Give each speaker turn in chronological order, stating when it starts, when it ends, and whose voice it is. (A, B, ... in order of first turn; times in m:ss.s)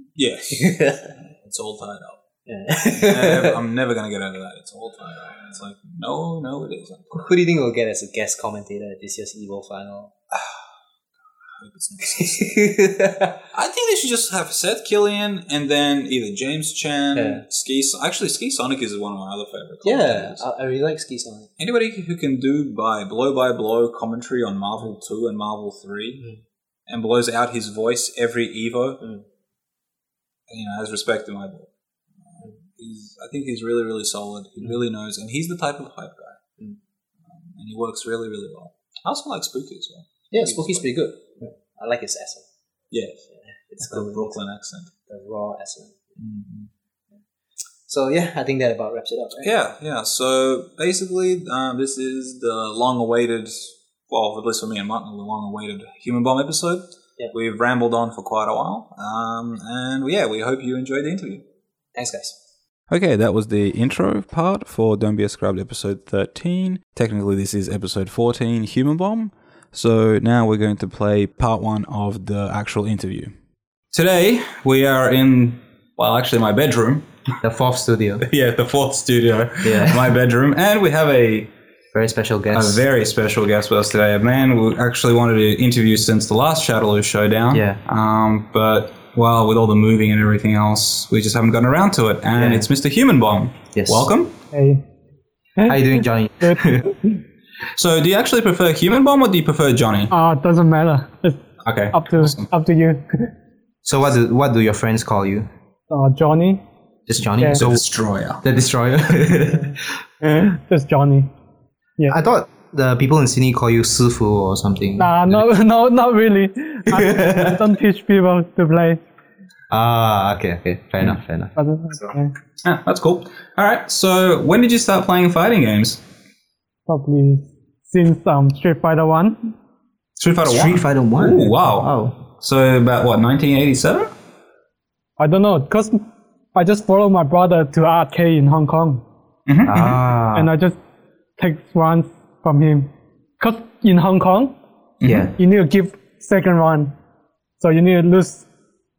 0:00.2-0:02.2 A
0:00.5-0:01.2 B
0:02.4-0:03.6 B
0:02.9-0:07.1 A
0:07.1-0:10.1 B
0:11.6-0:12.6 A
0:12.1-0:13.4 B
0:13.5-0:20.4 A
0:17.1-0:17.4 B
0:19.8-0:21.5 B
0:21.6-0:26.2 A
0:26.9-0:29.0 A
0:30.5-0:31.7 A
0:32.2-0:36.4 A
0:37.2-0:40.9 A
0:40.3-0:42.5 B
0:42.9-0:43.3 A
0:43.7-0:44.4 B
0:43.8-0:44.9 A
0:45.0-0:46.2 B
0:46.2-0:46.7 A
0:47.8-0:49.5 B
0:49.4-1:01.4 A
1:01.9-1:02.4 B
1:02.9-1:13.3 A
1:13.9-1:17.1 A
1:17.4-1:18.2 B
1:18.2-1:21.5 A
1:19.6-1:20.1 B
1:21.9-1:22.8 B
1:22.5-1:34.3 A
1:27.5-1:27.8 B
1:32.3-1:32.7 B
1:33.7-1:34.1 B
1:34.5-1:34.8 C
1:35.6-1:36.6 C
1:35.6-1:37.0 B
1:37.7-1:40.1 A
1:40.1-1:41.4 C
1:41.6-1:42.5 A
1:41.9-1:43.3 C
1:43.8-1:45.5 B
1:45.9-1:46.6 C
1:47.1-1:47.8 B
1:47.5-1:48.4 A
1:48.4-1:50.0 B
1:50.4-1:51.3 C
1:52.1-1:55.4 B
1:55.0-1:59.0 C
1:56.9-1:57.6 B
1:59.7-2:02.2 B
2:01.6-2:02.3 C
2:02.6-2:06.0 A
2:06.9-2:09.5 C
2:10.2-2:14.1 A
2:10.4-2:12.2 B
2:15.2-2:16.0 C
2:16.5-2:19.0 C
2:19.5-2:20.0 A
2:19.6-2:20.5 B
2:20.3-2:20.8 C
2:21.4-2:24.6 C
2:25.0-2:25.3 A
2:25.0-2:25.3 B
2:25.4-2:26.9 C
2:27.6-2:28.4 C